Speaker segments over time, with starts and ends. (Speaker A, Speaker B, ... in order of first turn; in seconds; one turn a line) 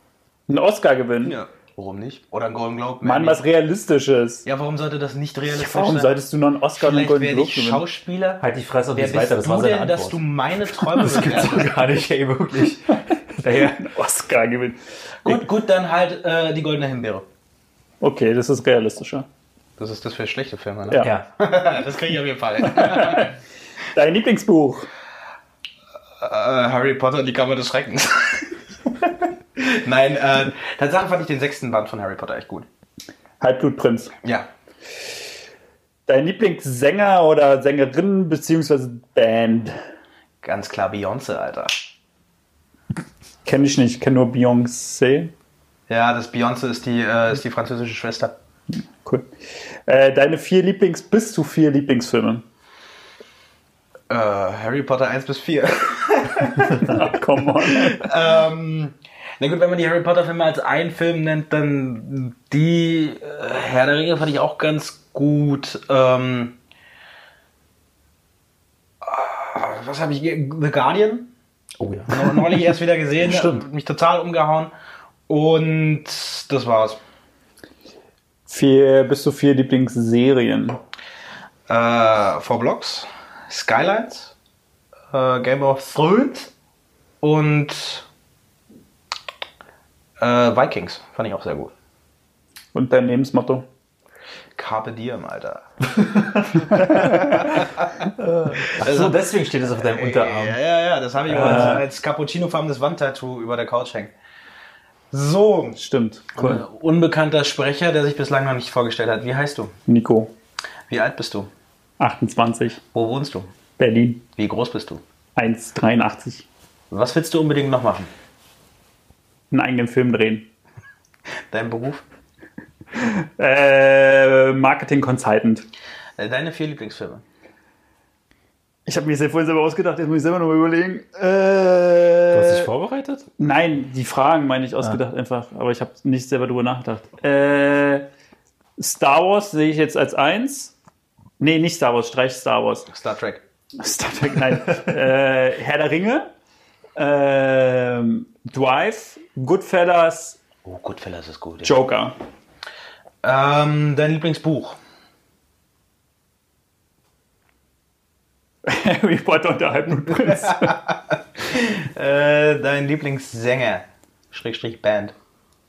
Speaker A: 0.5-1.4
Speaker B: 1.2-3.4
Speaker A: 3.0-4.5
Speaker B: 4.5-6.1
Speaker A: 5.5-7.8
Speaker B: 6.8-8.4
Speaker C: 8.4-10.3
Speaker B: 9.0-11.8
Speaker C: 10.8-13.9
Speaker A: 13.6-15.4
Speaker B: 15.2-17.3
Speaker A: 18.0-19.3
Speaker B: 19.8-23.3
Speaker A: 22.6-23.3
Speaker A: 23.9-24.9
Speaker B: 26.2-32.7
Speaker A: 33.4-34.1
Speaker B: 34.2-34.5
Speaker A: 36.1-39.8
Speaker B: 40.4-41.9
Speaker A: 43.5-45.3
Speaker B: 45.9-48.4
Speaker A: 49.9-52.5
Speaker B: 54.1-57.1
Speaker A: 56.7-58.1
Speaker B: 57.6-66.5
Speaker B: 69.0-71.3
Speaker C: 71.8-72.7
Speaker B: 72.1-74.7
Speaker C: 73.2-73.7
Speaker B: 75.3-77.0
Speaker A: 78.5-80.8
Speaker B: 81.7-84.3
Speaker B: 85.1-86.5
Speaker B: 87.2-88.1
Speaker B: 90.2-91.7
Speaker A: 92.7-93.7
Speaker B: 94.6-95.7
Speaker C: 95.9-97.7
Speaker A: 96.8-97.2
Speaker B: 96.8-97.9
Speaker C: 98.2-100.6
Speaker B: 98.7-99.2
Speaker B: 99.8-104.1
Speaker C: 101.3-101.8
Speaker A: 101.3-101.8
Speaker B: 105.1-105.8
Speaker A: 105.8-106.6
Speaker B: 106.3-109.8
Speaker A: 109.9-110.3
Speaker B: 110.9-111.5
Speaker A: 112.0-112.8
Speaker B: 112.9-113.5
Speaker A: 113.8-114.2
Speaker B: 114.4-115.0
Speaker A: 115.4-116.5
Speaker B: 116.9-118.1
Speaker A: 119.5-120.5
Speaker B: 121.5-122.0
Speaker A: 123.0-125.7
Speaker B: 126.2-127.2
Speaker A: 128.9-132.7
Speaker C: 132.3-133.3
Speaker A: 133.4-138.1
Speaker A: 138.8-140.7
Speaker A: 141.4-142.9
Speaker B: 142.9-143.4
Speaker A: 143.8-146.3
Speaker A: 147.0-150.4
Speaker B: 150.7-151.8
Speaker A: 151.6-152.2
Speaker B: 153.2-154.8
Speaker A: 158.7-160.8
Speaker B: 160.6-165.1